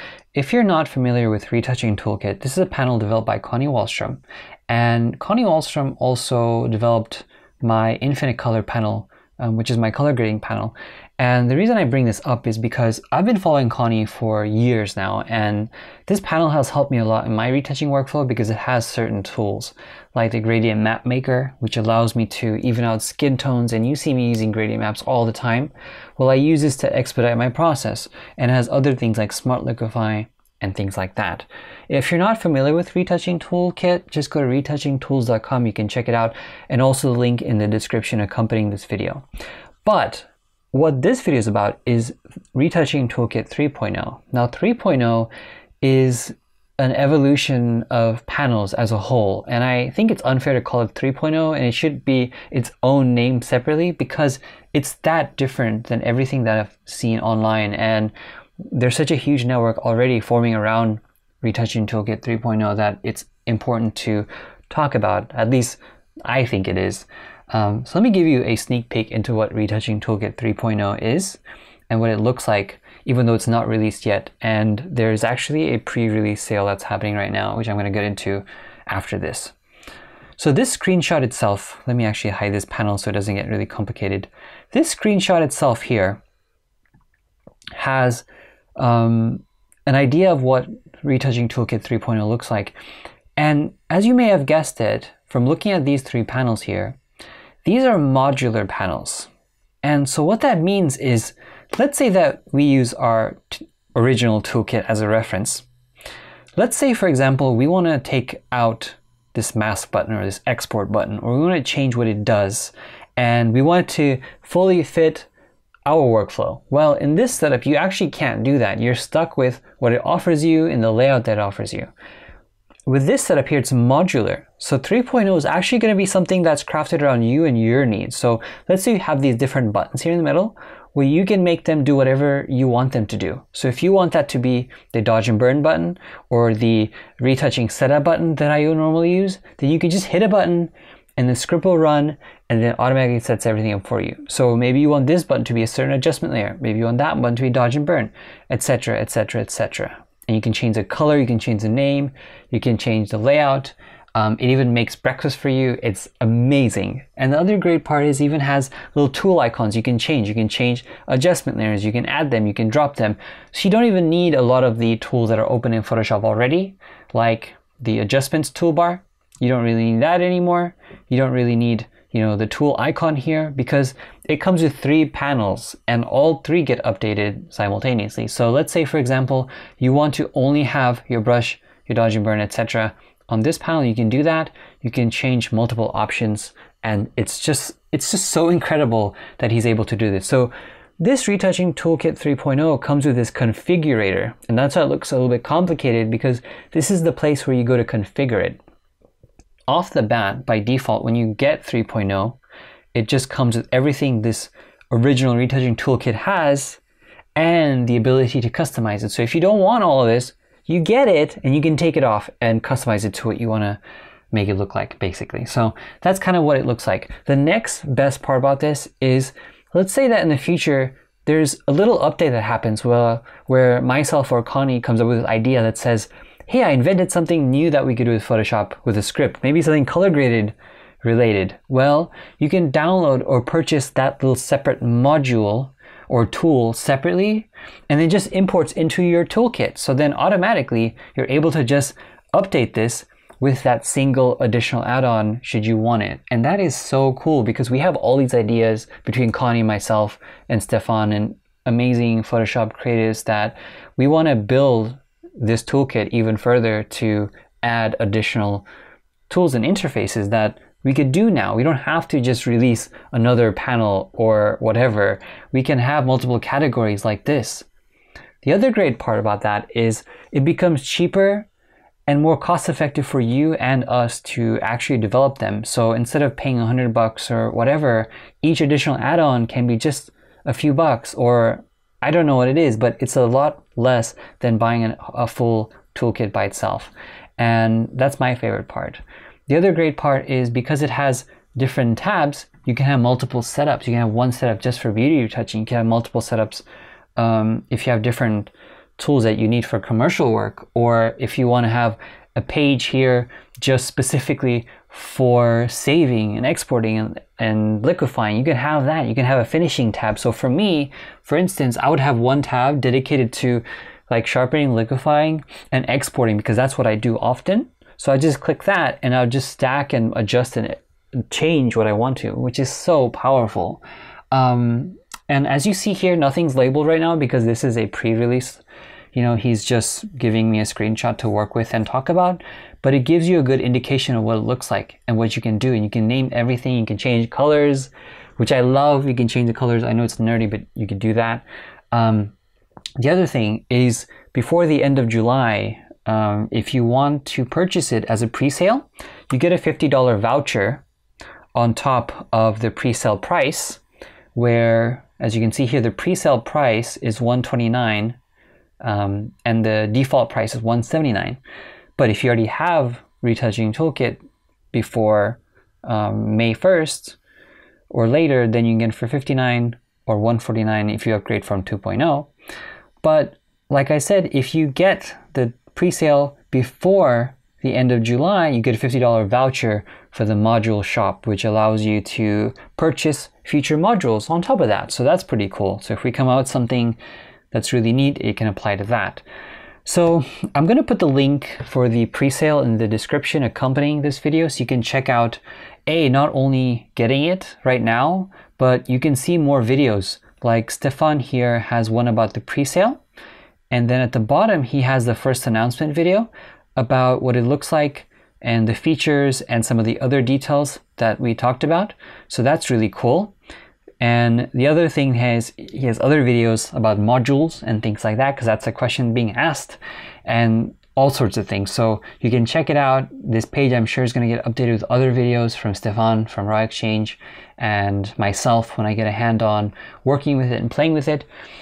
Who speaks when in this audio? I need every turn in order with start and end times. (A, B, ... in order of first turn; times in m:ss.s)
0:00.3-0:39.2 A
0:39.8-0:45.3 A
0:45.8-1:11.4 A
1:11.9-1:19.5 A
1:20.4-1:26.2 A
1:27.8-1:28.2 A
1:28.8-1:32.7 A
1:33.4-1:37.0 A
1:37.6-1:39.3 A
1:39.8-1:45.6 A
1:46.6-1:55.3 A
1:55.8-2:01.9 A
2:02.9-3:18.6 A
3:19.7-3:22.4 A
3:22.9-3:26.8 A
3:27.4-3:33.8 A
3:34.3-4:18.6 A
4:19.3-4:27.7 A
4:28.4-4:31.5 A
4:32.1-4:56.6 A
4:57.2-5:28.6 A
5:29.1-5:42.3 A
5:43.0-5:50.8 A
5:51.5-5:53.8 A
5:54.3-5:58.2 A
5:58.8-6:01.4 A
6:02.0-6:04.2 A
6:04.7-6:07.2 A
6:07.9-6:12.3 A
6:13.0-6:27.0 A
6:27.5-6:29.2 A
6:29.8-6:43.0 A
6:43.7-6:53.3 A
6:54.0-7:11.3 A